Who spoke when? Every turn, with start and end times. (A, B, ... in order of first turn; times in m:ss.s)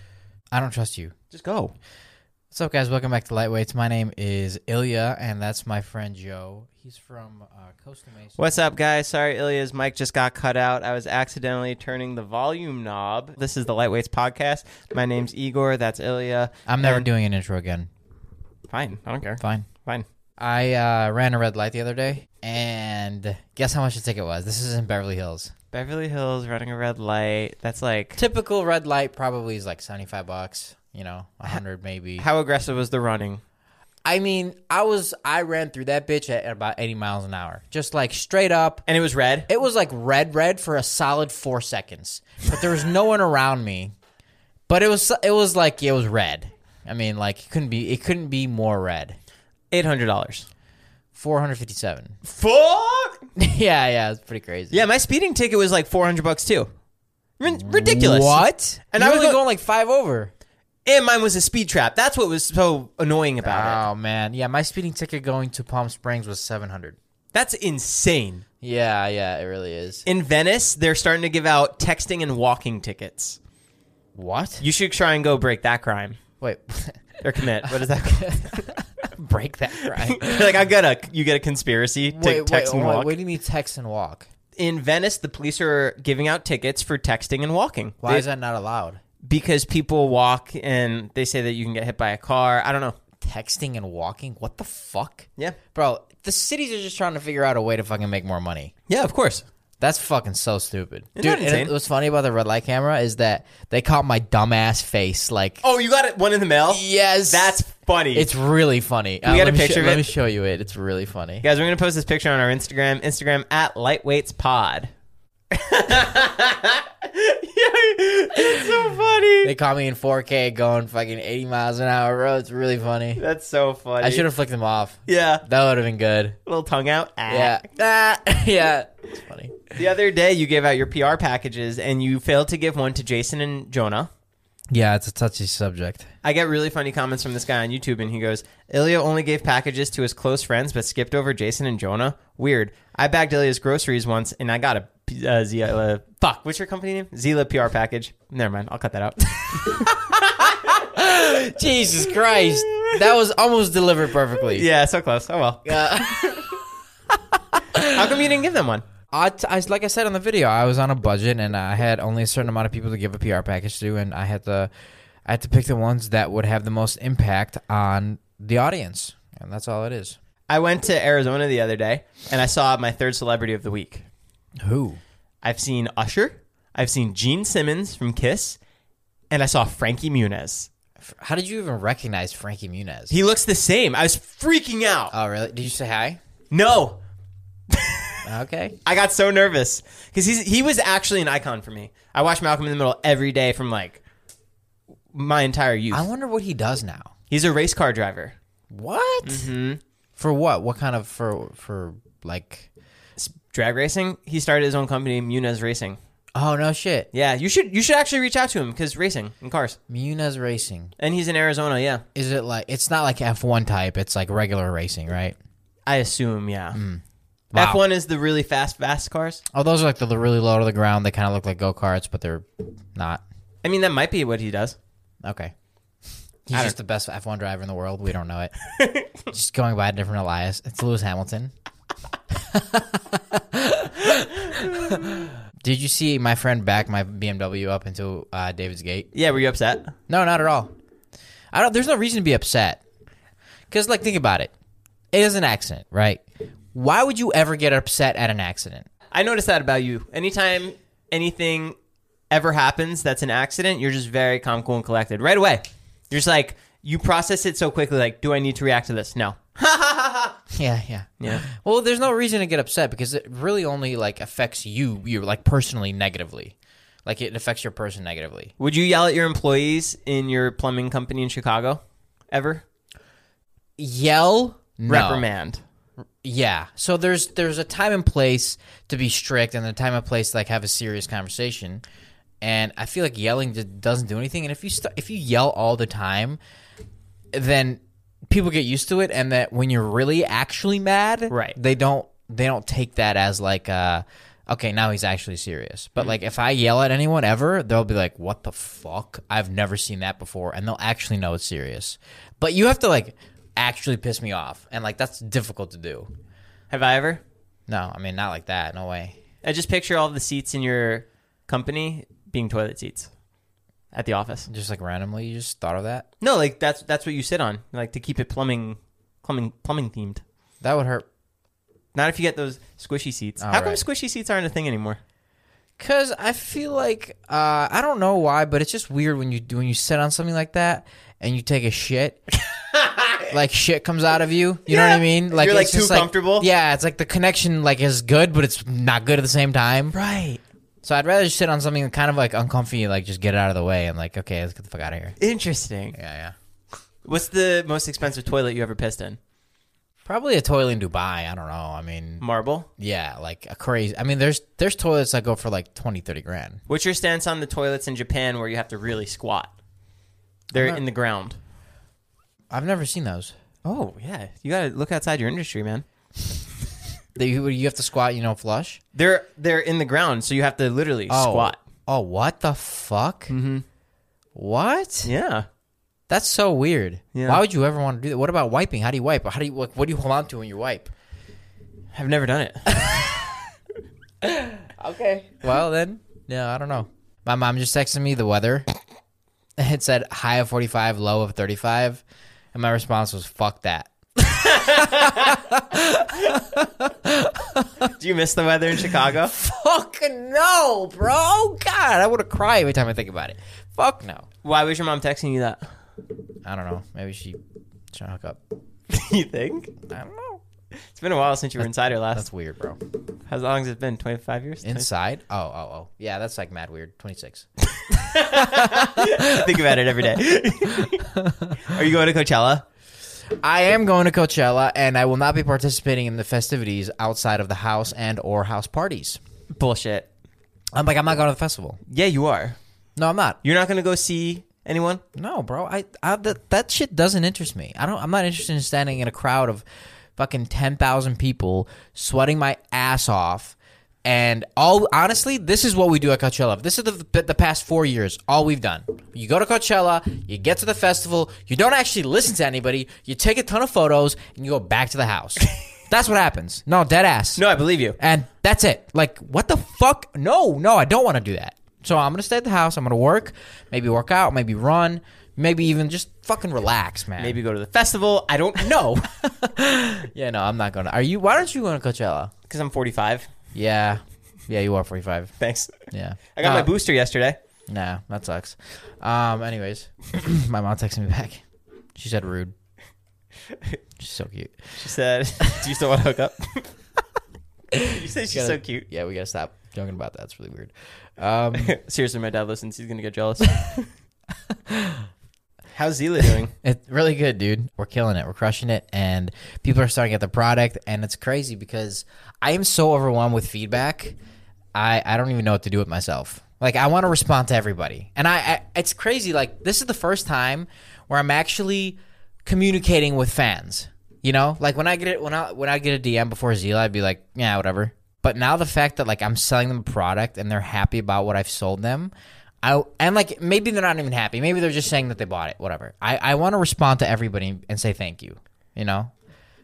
0:00.5-0:01.1 A
0:01.3-0:01.7 B
0:02.5-0:08.4 A
0:08.4-0:17.1 B
0:16.7-0:17.9 A
0:18.7-0:20.0 B
0:19.4-0:19.7 A
0:20.4-0:25.5 A
0:25.7-0:28.2 B
0:28.2-0:32.2 A
0:32.2-0:33.4 B
0:34.0-0:38.8 A
0:38.9-0:39.5 B
0:39.5-0:43.9 A
0:44.7-0:49.2 A
0:49.7-0:50.5 B
0:51.1-0:52.2 A
0:52.2-0:53.2 B
0:53.4-0:54.8 A
0:54.7-0:56.7 B
0:57.4-0:59.4 B
0:57.5-1:00.3 A
1:00.8-1:03.8 B
1:03.4-1:07.0 A
1:07.3-1:08.4 B
1:08.6-1:10.0 A
1:10.0-1:13.4 B
1:14.1-1:14.6 A
1:14.6-1:16.2 B
1:16.4-1:20.6 A
1:17.2-1:18.7 B
1:19.8-1:23.1 B
1:22.1-1:24.2 A
1:24.6-1:28.2 B
1:28.0-1:29.0 A
1:29.2-1:33.0 B
1:33.2-1:38.7 A
1:38.9-1:39.4 B
1:39.8-1:45.6 A
1:41.2-1:41.7 B
1:45.6-1:48.3 B
1:46.7-1:47.6 A
1:48.1-1:51.4 A
1:49.2-1:50.1 B
1:51.4-1:54.9 B
1:55.5-1:59.5 B
1:59.4-2:03.2 A
2:03.2-2:04.2 B
2:04.0-2:06.4 A
2:05.1-2:05.4 B
2:06.4-2:07.6 B
2:07.3-2:09.7 A
2:09.7-2:14.1 B
2:14.7-2:16.1 A
2:16.2-2:30.8 B
2:29.6-2:34.7 A
2:32.7-2:32.9 B
2:34.5-2:36.6 B
2:35.6-2:36.6 A
2:37.5-2:38.1 A
2:37.8-2:38.8 B
2:39.1-2:44.7 A
2:45.2-2:50.2 A
2:50.5-2:54.0 B
2:54.6-2:55.0 A
2:55.4-2:58.6 B
2:59.3-3:00.7 B
3:01.0-3:03.1 A
3:03.1-3:05.1 B
3:05.1-3:06.2 A
3:06.5-3:07.0 B
3:07.7-3:08.3 B
3:08.2-3:08.8 A
3:08.8-3:14.0 B
3:15.1-3:16.1 B
3:15.9-3:17.1 A
3:17.3-3:18.3 B
3:18.7-3:19.5 A
3:19.2-3:19.8 B
3:20.2-3:22.7 A
3:23.2-3:26.0 B
3:26.3-3:27.1 A
3:27.1-3:29.8 B
3:29.9-3:30.9 A
3:31.0-3:32.0 B
3:32.1-3:35.4 A
3:35.8-3:36.8 B
3:36.7-3:37.0 A
3:37.5-3:37.8 A
3:37.5-3:39.4 B
3:39.5-3:43.2 A
3:43.6-3:44.8 B
3:45.2-3:45.5 A
3:46.5-3:48.5 A
3:46.5-3:46.8 B
3:48.7-3:49.2 B
3:49.3-3:51.5 A
3:52.3-3:59.1 A
3:59.1-3:59.9 B
4:00.1-4:00.7 A
4:01.5-4:02.8 A
4:03.7-4:04.5 A
4:05.1-4:06.2 A
4:06.7-4:08.8 A
4:09.1-4:11.7 B
4:12.3-4:20.4 B
4:20.5-4:28.5 A
4:21.2-4:21.4 B
4:28.6-4:32.6 B
4:33.8-4:35.2 A
4:34.9-4:35.6 B
4:36.2-4:41.8 A
4:42.4-4:46.4 A
4:47.3-5:06.1 A
4:51.3-4:51.6 B
5:06.7-5:07.2 B
5:07.7-5:09.2 A
5:09.4-5:13.1 B
5:13.9-5:14.5 B
5:14.5-5:16.0 A
5:16.2-5:20.2 B
5:20.6-5:21.0 A
5:21.9-5:25.0 B
5:23.4-5:23.8 A
5:25.8-5:32.2 A
5:32.5-5:33.3 B
5:33.3-5:39.9 A
5:34.7-5:36.5 B
5:39.9-5:40.4 B
5:40.8-5:45.2 A
5:45.2-5:46.0 B
5:45.9-5:46.3 A
5:47.0-5:49.2 B
5:50.0-5:52.2 A
5:52.2-5:52.7 B
5:52.8-5:56.6 A
5:56.7-5:59.5 B
6:00.5-6:00.8 A
6:00.5-6:01.4 B
6:02.5-6:03.3 A
6:03.6-6:05.8 B
6:07.2-6:08.8 A
6:08.9-6:11.6 B
6:11.1-6:13.3 A
6:13.3-6:13.6 B
6:14.3-6:15.1 A
6:15.0-6:15.5 B
6:16.1-6:20.9 A
6:17.1-6:17.4 B
6:21.9-6:23.0 B
6:22.8-6:23.2 A
6:24.2-6:28.7 A
6:29.6-6:32.0 A
6:32.5-6:37.9 A
6:34.3-6:35.4 B
6:37.8-6:39.3 B
6:38.9-6:44.3 A
6:44.4-6:45.7 B
6:46.4-6:47.4 A
6:47.9-6:48.4 A
6:48.9-6:49.7 B
6:49.8-6:50.4 A
6:50.9-6:52.2 B
6:52.1-6:52.8 A
6:53.3-6:54.9 B
6:54.6-6:57.5 A
6:57.8-7:01.1 B
6:58.0-6:59.7 A
7:00.8-7:01.6 A
7:01.6-7:02.6 B
7:03.4-7:09.2 A
7:09.5-7:10.1 B
7:10.7-7:11.8 A
7:11.9-7:12.6 B
7:13.0-7:13.4 A
7:13.4-7:15.0 B
7:15.1-7:19.6 A
7:20.2-7:37.4 A
7:37.4-7:38.0 B
7:38.0-7:47.4 A
7:47.2-7:49.0 B
7:48.6-7:52.3 A
7:52.5-7:53.3 B
7:53.5-7:55.3 A
7:55.4-7:57.4 B
7:55.9-7:56.7 A
7:57.7-8:01.4 A
8:02.0-8:02.5 A
8:04.0-8:04.8 A
8:04.8-8:06.7 B
8:07.7-8:11.7 A
8:07.8-8:08.9 B
8:11.5-8:13.9 B
8:14.5-8:15.0 A
8:15.7-8:16.5 B
8:16.6-8:24.2 A
8:24.7-8:49.1 A